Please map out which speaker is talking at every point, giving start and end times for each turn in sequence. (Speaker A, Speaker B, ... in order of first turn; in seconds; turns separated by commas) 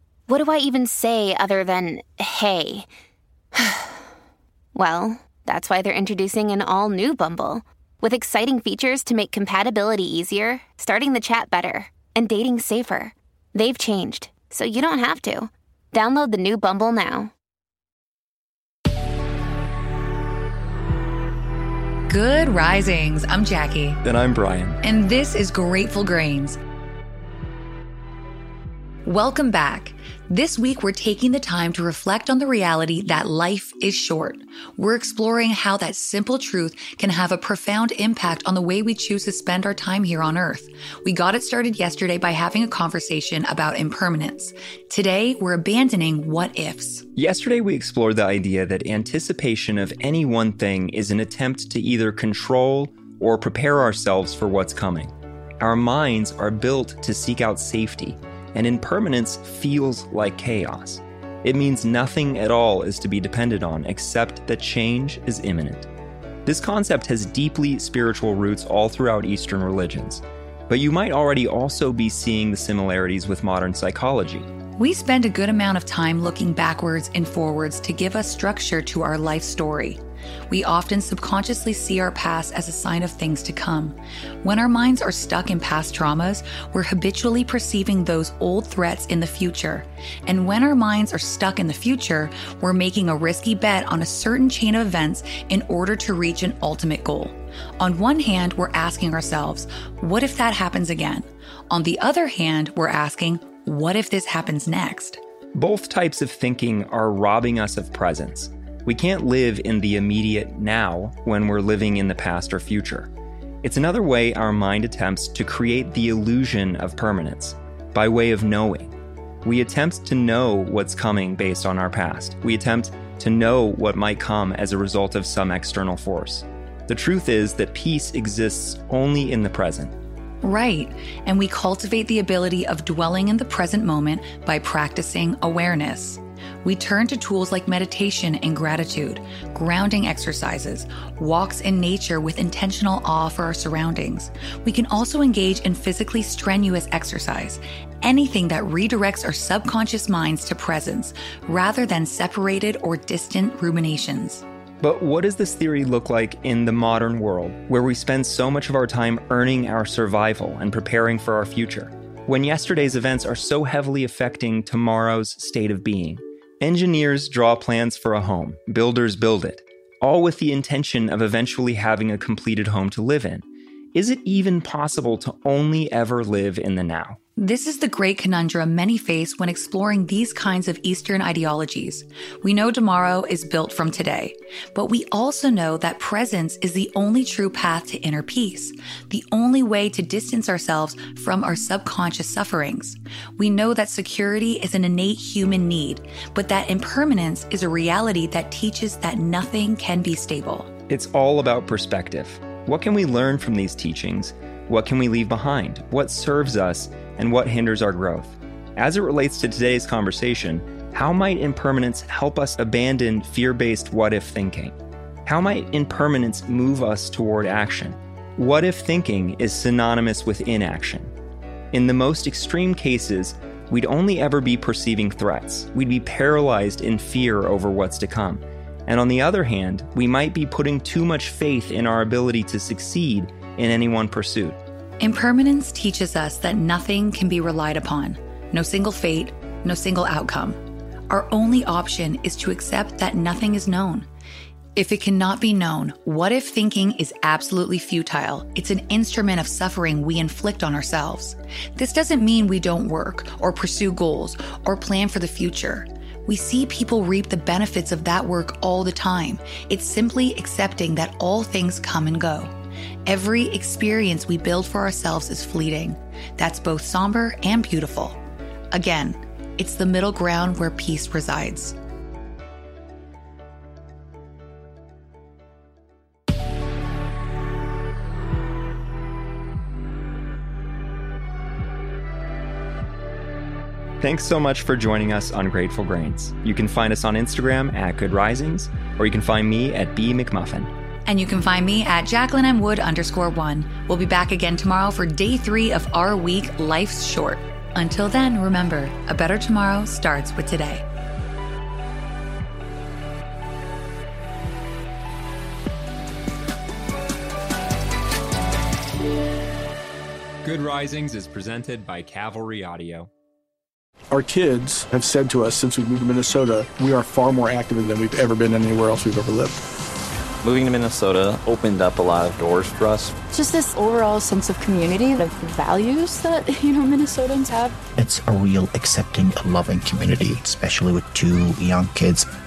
Speaker A: 0.3-2.9, Speaker A: 3.6-3.9, Speaker A: 4.8-17.3, Speaker B: 22.1-24.0, Speaker C: 24.0-24.8, Speaker B: 24.8-26.6, Speaker B: 29.1-47.1, Speaker C: 47.2-65.9, Speaker C: 66.5-74.5, Speaker B: 74.8-105.2, Speaker C: 105.5-113.1, Speaker C: 113.6-118.9, Speaker C: 119.4-129.9, Speaker B: 130.4-154.4, Speaker C: 154.8-177.2, Speaker B: 177.4-200.7, Speaker C: 200.9-214.7, Speaker C: 215.3-221.1, Speaker C: 221.7-234.6, Speaker B: 235.0-240.6, Speaker B: 241.1-244.1, Speaker B: 244.8-262.5, Speaker B: 263.1-268.2, Speaker B: 268.7-271.8, Speaker C: 284.0-290.7, Speaker B: 291.1-300.8, Speaker C: 310.4-313.1, Speaker D: 314.1-319.6, Speaker E: 320.4-323.1, Speaker F: 323.3-327.8, Speaker G: 328.0-332.3